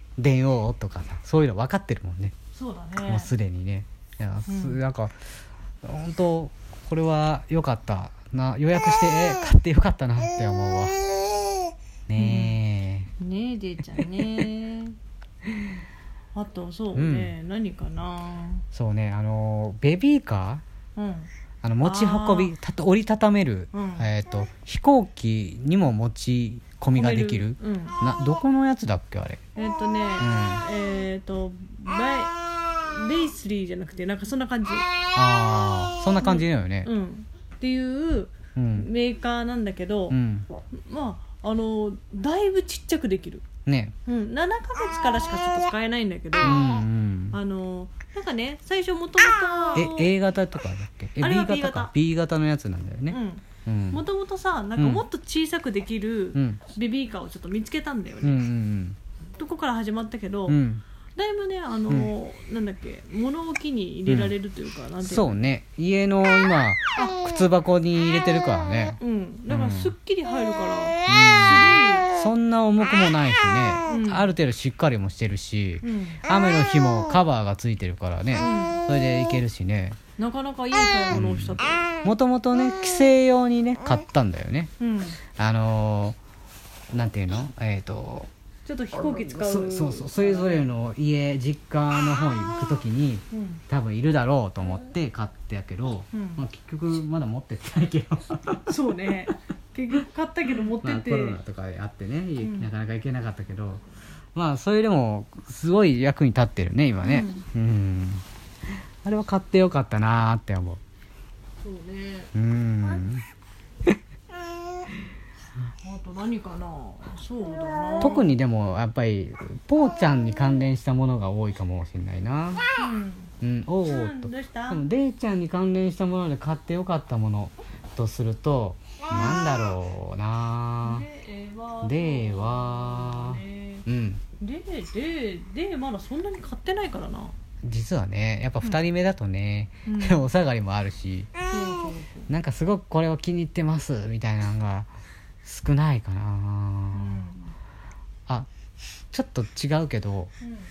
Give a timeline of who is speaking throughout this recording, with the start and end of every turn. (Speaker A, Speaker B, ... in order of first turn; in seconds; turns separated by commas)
Speaker A: 0.2-2.3, Speaker B: 2.5-3.3, Speaker A: 3.1-5.1, Speaker B: 4.5-4.8, Speaker A: 5.8-11.0, Speaker A: 12.1-13.1, Speaker B: 12.2-12.6, Speaker B: 13.2-14.9, Speaker B: 16.3-18.6, Speaker A: 16.9-17.3, Speaker A: 18.7-20.6, Speaker B: 20.9-21.3, Speaker A: 21.6-29.4, Speaker B: 21.8-22.5, Speaker B: 23.7-24.1, Speaker B: 26.9-28.0, Speaker B: 29.5-34.9, Speaker A: 30.2-30.6, Speaker A: 35.1-36.9, Speaker B: 36.2-40.2, Speaker A: 38.5-38.9, Speaker A: 40.1-40.5, Speaker B: 40.7-43.5, Speaker A: 43.6-43.9, Speaker B: 44.0-46.8, Speaker A: 46.4-47.4, Speaker B: 47.3-50.1, Speaker A: 49.7-54.0, Speaker B: 51.2-51.9, Speaker B: 53.1-58.5, Speaker A: 54.8-55.0, Speaker A: 56.3-56.6, Speaker A: 58.2-59.0, Speaker B: 59.4-60.6, Speaker A: 60.5-60.8, Speaker B: 61.1-65.4, Speaker A: 64.1-64.3, Speaker A: 65.0-69.0, Speaker B: 69.0-72.1, Speaker A: 69.5-69.9, Speaker A: 71.0-80.0, Speaker B: 73.8-74.3, Speaker B: 75.8-76.2, Speaker B: 78.4-78.8, Speaker B: 80.2-82.0, Speaker A: 81.1-84.7, Speaker B: 84.8-85.2, Speaker A: 85.4-86.2, Speaker A: 86.9-88.3, Speaker B: 88.6-90.6, Speaker A: 89.0-98.9, Speaker B: 93.3-93.6, Speaker B: 96.1-96.4, Speaker B: 98.7-101.4, Speaker A: 100.8-103.8, Speaker B: 102.4-102.7, Speaker A: 104.3-108.2, Speaker B: 107.0-107.4, Speaker A: 109.0-110.8, Speaker B: 111.6-112.3, Speaker A: 112.3-113.2, Speaker B: 115.8-118.3, Speaker A: 118.0-122.6, Speaker B: 122.8-123.3, Speaker A: 123.4-131.0, Speaker B: 123.8-124.8, Speaker B: 129.1-129.4, Speaker B: 130.8-133.8, Speaker A: 131.8-134.2, Speaker B: 134.4-137.3, Speaker A: 137.6-141.3, Speaker B: 139.8-140.2, Speaker B: 141.5-142.3, Speaker A: 142.3-144.9, Speaker A: 145.4-147.3, Speaker B: 146.9-147.5, Speaker A: 149.1-150.3